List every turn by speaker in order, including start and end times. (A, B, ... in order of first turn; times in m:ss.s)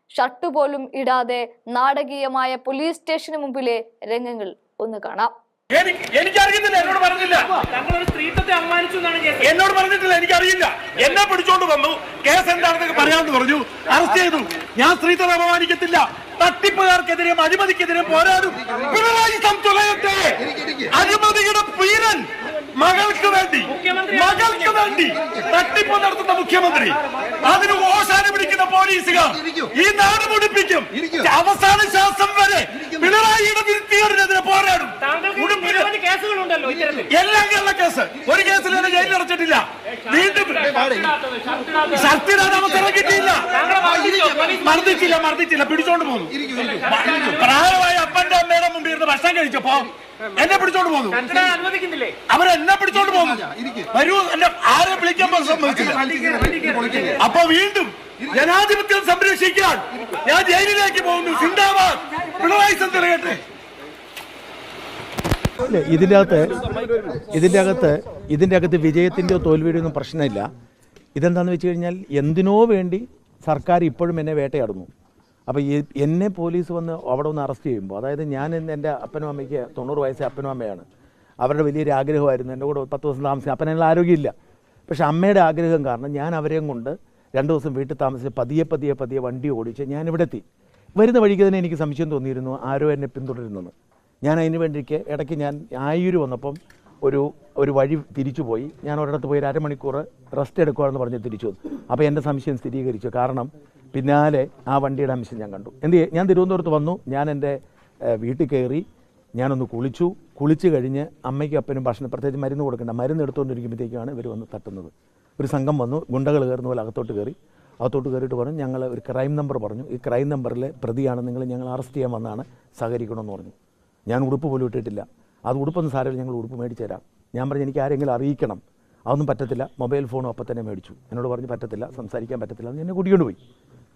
0:00.2-0:05.3 A
0:05.7-0:07.5 B
0:07.7-0:09.5 C
0:09.4-0:35.9 B
0:23.8-0:24.5 C
0:35.0-0:37.1 C
0:37.1-0:40.8 B
0:40.7-0:42.1 C
0:41.9-0:43.7 B
0:43.5-0:44.7 C
0:44.6-0:51.4 B
0:51.3-0:52.2 C
0:52.3-0:56.0 B
0:56.3-0:57.1 C
0:57.2-1:03.4 B
1:05.6-1:06.6 D
1:07.3-1:10.5 D
1:11.2-1:14.9 D
1:15.5-1:20.8 D
1:21.4-1:24.3 D
1:24.9-1:30.4 D
1:31.0-1:48.8 D
1:49.4-2:03.5 D
2:04.1-2:13.4 D